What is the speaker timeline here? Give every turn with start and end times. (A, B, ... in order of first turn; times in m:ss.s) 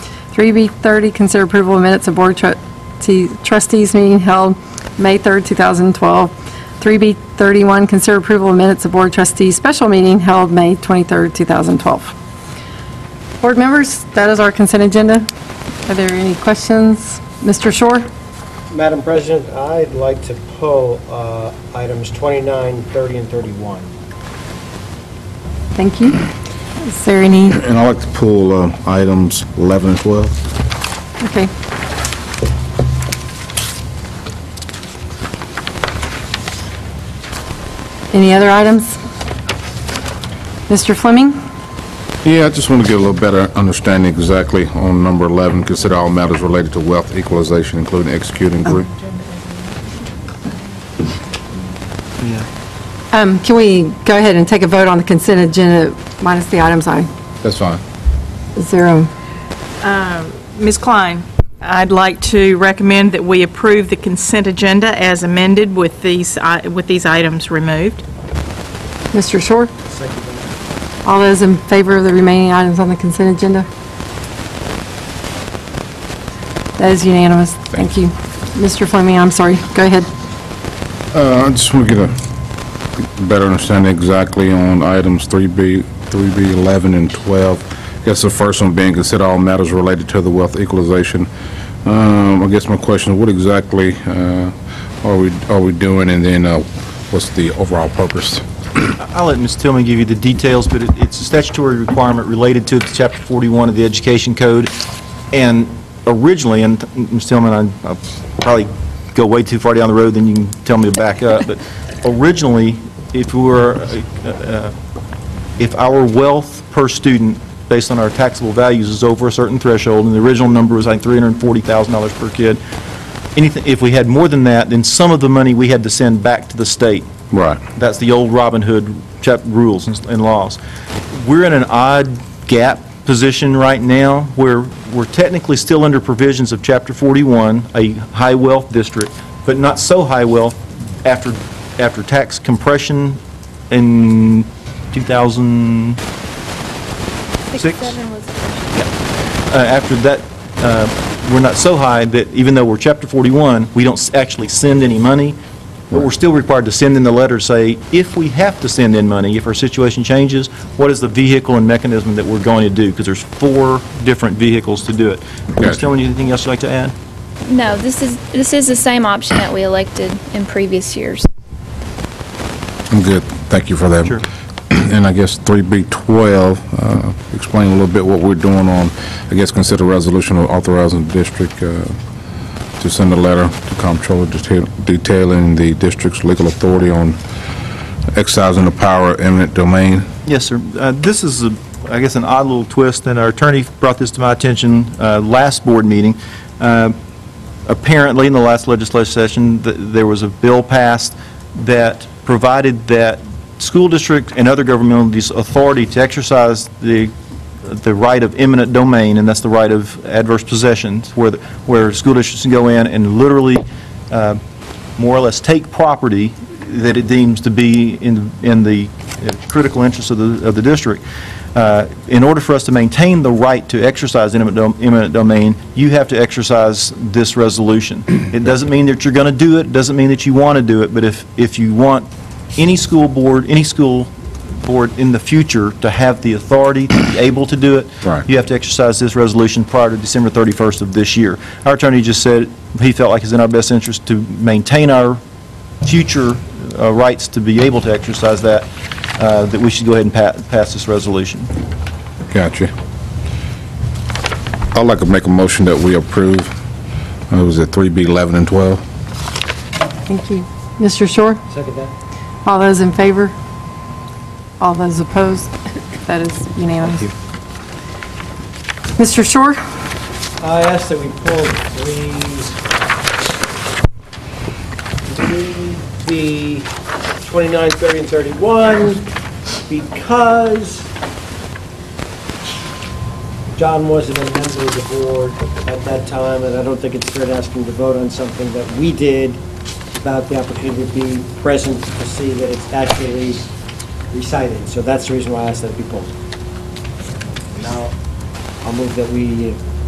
0:00.3-0:12.1 A
0:13.4-0:15.3 A
0:15.9-0:18.1 A
0:18.7-0:23.9 B
0:25.8-0:26.2 A
0:26.8-0:27.6 A
0:27.5-0:30.4 C
0:31.2-0:31.5 A
0:38.1-0:39.0 A
0:40.7-0:41.4 A
0:42.2-0:48.9 C
0:53.1-0:57.1 A
0:57.4-0:57.8 C
0:58.6-0:59.1 A
0:59.8-1:08.0 D
1:09.1-1:09.7 A
1:09.9-1:10.5 B
1:11.0-1:13.7 A
1:16.8-1:20.1 A
1:21.1-1:22.2 C
1:23.0-1:31.3 C
1:31.8-1:38.5 C
1:39.0-1:44.7 E
1:45.3-1:54.8 E
1:55.6-2:02.6 E
2:03.4-2:07.1 E
2:07.3-2:07.6 C
2:07.7-2:10.6 E
2:11.1-2:26.0 E
2:27.5-2:28.6 F
2:27.6-2:28.0 E
2:29.5-2:35.4 E
2:35.9-2:47.0 E
2:45.6-2:45.8 C
2:47.5-2:51.3 F
2:52.9-2:54.2 C
2:54.8-3:02.0 C
3:02.8-3:07.2 C
3:08.2-3:10.1 C
3:10.2-3:17.0 E
3:17.7-3:34.4 E
3:35.0-3:41.0 E
3:41.6-3:54.1 E
3:54.6-4:05.2 E
4:05.8-4:11.5 E
4:12.3-4:12.7 C
4:14.7-4:16.6 C
4:17.3-4:18.8 C
4:20.1-4:21.4 A
4:21.5-4:21.9 B
4:22.4-4:23.3 A
4:24.6-4:25.5 A
4:26.1-4:27.1 A
4:29.0-4:29.6 A
4:30.4-4:32.5 B
4:35.1-4:36.7 B
4:37.2-4:39.0 B
4:39.7-4:40.9 B
4:43.6-4:49.4 B
4:50.0-4:53.5 B
4:54.1-4:56.1 B
4:57.6-4:57.9 B
4:58.6-4:59.6 B